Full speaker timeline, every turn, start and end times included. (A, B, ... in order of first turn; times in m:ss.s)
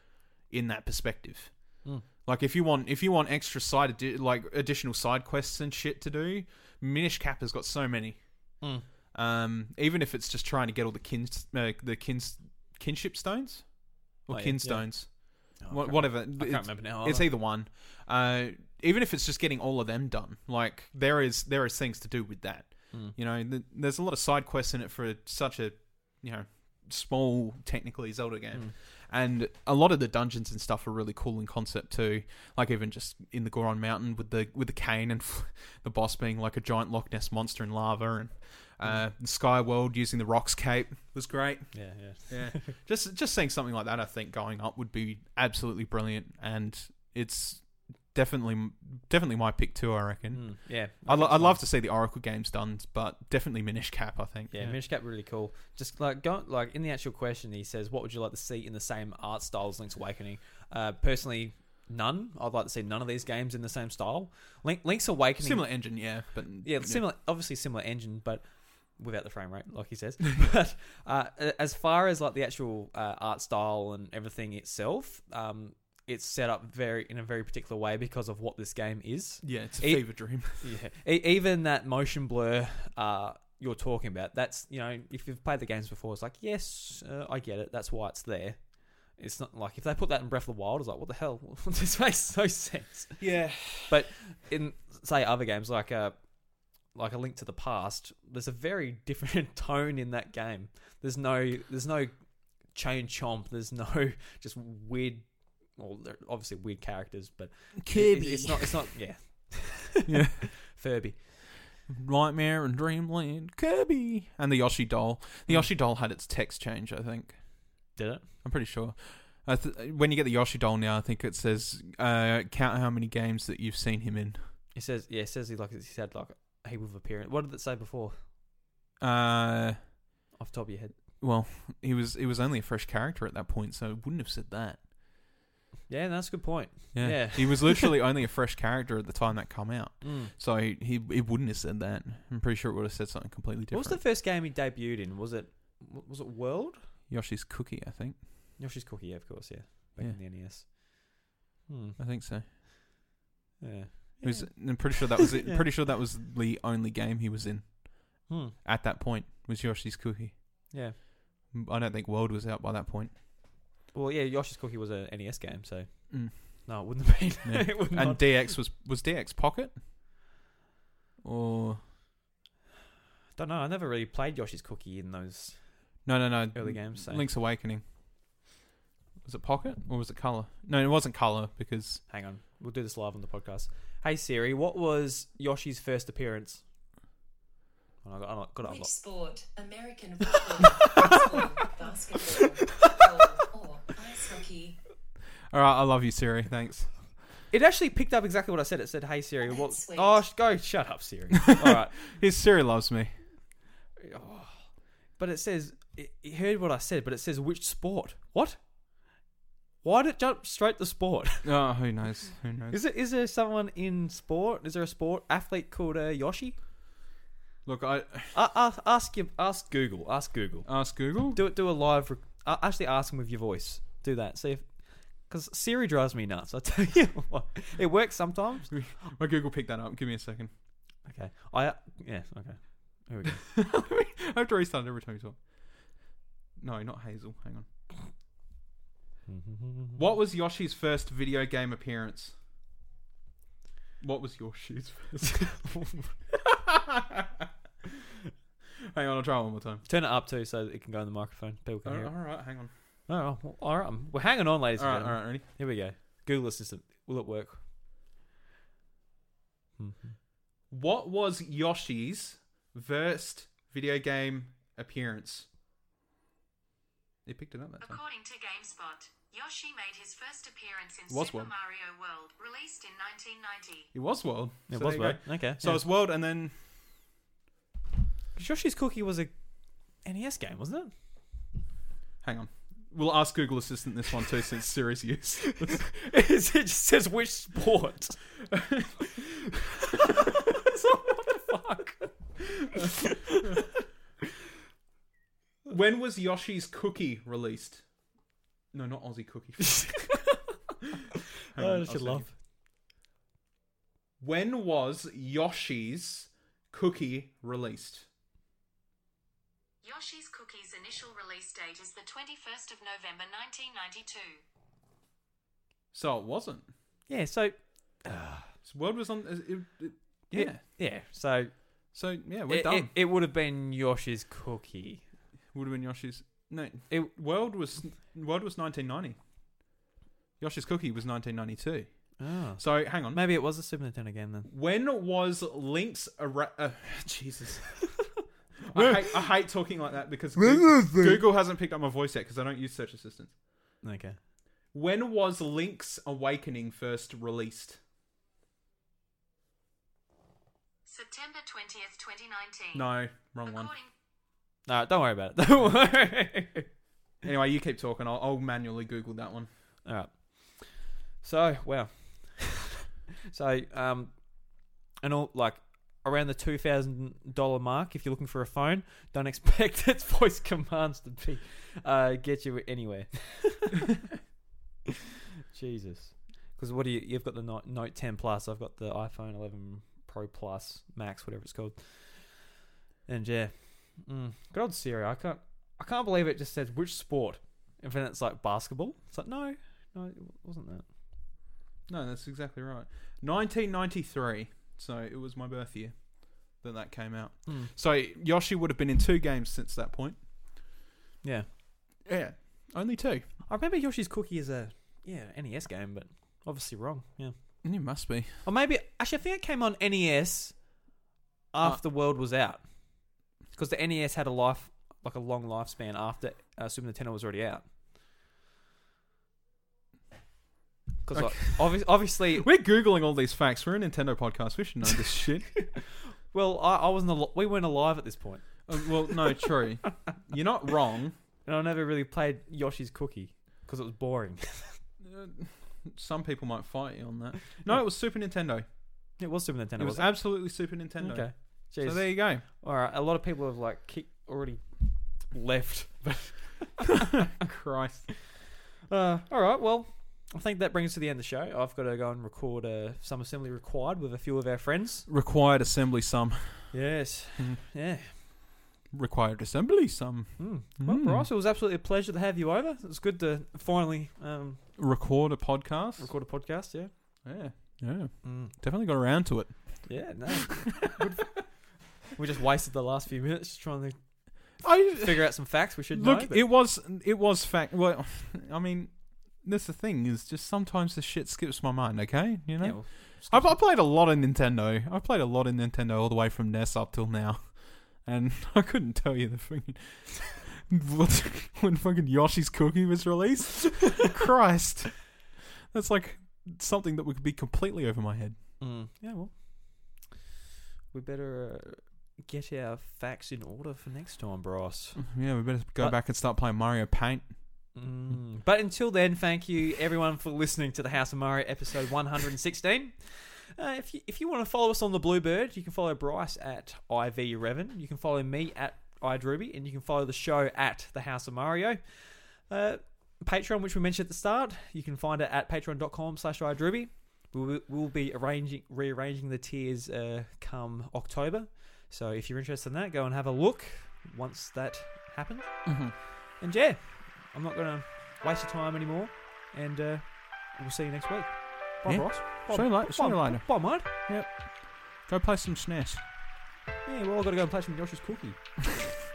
0:00.5-0:01.7 A
0:02.2-0:08.6 A
0:09.1-0:54.8 A
0:14.3-0:17.3 B
0:41.7-0:42.7 B
0:50.3-0:51.6 B
0:54.5-1:33.3 B
1:05.4-1:07.0 A
1:19.4-1:20.7 A
1:33.2-1:34.0 A
1:33.8-1:36.2 B
1:36.9-1:42.1 B
1:42.6-1:51.2 B
1:47.8-1:48.9 A
1:50.1-1:50.5 A
1:51.9-1:57.6 A
1:55.5-1:55.7 B
1:58.0-1:58.3 B
1:58.4-2:04.4 A
2:04.8-2:08.2 B
2:09.0-2:09.8 A
2:10.4-2:11.0 B
2:11.2-2:14.8 A
2:15.9-2:17.9 B
2:16.9-2:24.0 A
2:20.0-2:20.3 B
2:23.7-2:26.8 B
2:27.1-2:28.3 A
2:28.6-2:32.0 B
2:32.0-2:32.4 A
2:33.6-2:35.7 B
2:34.2-2:40.7 A
2:38.3-2:38.6 B
2:40.7-2:41.0 B
2:41.5-2:43.1 A
2:43.9-2:48.6 B
2:46.1-2:46.7 A
2:47.4-2:49.8 A
2:51.2-2:51.8 A
2:53.4-2:57.3 B
2:56.0-2:57.8 A
2:59.2-3:02.0 A
3:02.1-3:06.6 B
3:08.0-3:08.9 B
3:08.6-3:14.8 C
3:10.8-3:11.2 B
3:15.5-3:16.9 A
3:17.5-3:22.0 B
3:19.5-3:20.2 C
3:21.6-3:23.1 A
3:24.0-3:28.6 B
3:29.8-3:31.5 B
3:31.4-3:32.8 A
3:32.7-3:36.6 B
3:37.6-3:38.3 A
3:38.3-3:48.7 B
3:40.7-3:41.4 A
3:48.7-3:50.5 A
3:51.0-3:53.4 B
3:53.4-3:55.4 A
3:56.6-3:57.7 A
3:59.3-4:00.0 B
4:00.0-4:02.4 A
4:04.0-4:05.6 A
4:05.2-4:06.1 B
4:06.3-4:07.5 A
4:08.9-4:09.8 A
4:09.9-4:12.2 B
4:11.8-4:12.7 A
4:13.1-4:17.6 B
4:14.8-4:15.4 A
4:19.8-4:20.1 B
4:20.7-4:25.5 A
4:27.3-4:28.0 A
4:27.8-4:33.9 C
4:31.1-4:31.5 A
4:33.9-4:36.6 A
4:34.7-4:35.8 B
4:38.4-4:39.3 B
4:40.0-4:40.9 B
4:42.2-4:45.8 A
4:45.6-4:48.2 B
4:48.5-4:49.2 A
4:49.9-4:52.1 B
4:52.7-4:53.7 B
4:55.7-4:57.9 A
4:58.7-5:00.2 A
4:59.6-5:00.4 B
5:01.5-5:02.3 A
5:01.6-5:02.3 B
5:04.2-5:08.1 A
5:09.8-5:14.4 C
5:15.9-5:16.7 A
5:17.1-5:18.6 B
5:18.6-5:20.6 A
5:20.3-5:22.0 B
5:21.9-5:22.9 A
5:22.5-5:25.1 B
5:25.5-5:29.2 A
5:30.4-5:33.2 A
5:32.2-5:34.5 B
5:34.5-5:43.4 A
5:40.4-5:41.2 B
5:43.8-5:44.2 B
5:44.7-5:47.8 A
5:50.9-5:52.9 C
5:52.7-5:53.7 A
5:53.4-5:53.9 C
5:54.7-5:56.7 B
5:57.2-5:59.5 A
5:59.8-6:02.7 B
6:03.3-6:13.9 B
6:15.5-6:30.9 B
6:31.9-6:40.2 A
6:37.5-6:37.7 B
6:42.0-6:43.3 A
6:43.5-6:47.3 B
6:47.6-6:48.4 A
6:48.4-6:50.8 B
6:51.5-6:52.7 B
6:53.5-6:57.7 B
7:01.0-7:02.5 B
7:01.1-7:05.6 A
7:05.6-7:09.9 B
7:08.7-7:11.1 A
7:11.4-7:14.8 B
7:15.0-7:18.6 A
7:19.2-7:27.3 B
7:19.8-7:22.4 A
7:27.2-7:28.1 A
7:28.9-7:35.1 B
7:35.1-7:36.8 A
7:36.7-7:38.1 B
7:38.9-7:41.3 A
7:40.4-7:44.6 B
7:44.8-7:46.1 A
7:46.0-7:46.9 B
7:47.2-7:50.0 A
7:48.2-7:48.6 B
7:49.9-7:51.5 B
7:50.8-7:51.2 A
7:52.0-7:56.4 B
7:54.6-8:18.4 A
8:02.6-8:03.6 B
8:18.6-8:20.1 B
8:20.9-8:26.0 B
8:25.0-8:27.4 A
8:27.7-9:03.9 B
8:55.7-8:56.0 A
9:01.8-9:06.0 A
9:06.8-9:08.4 B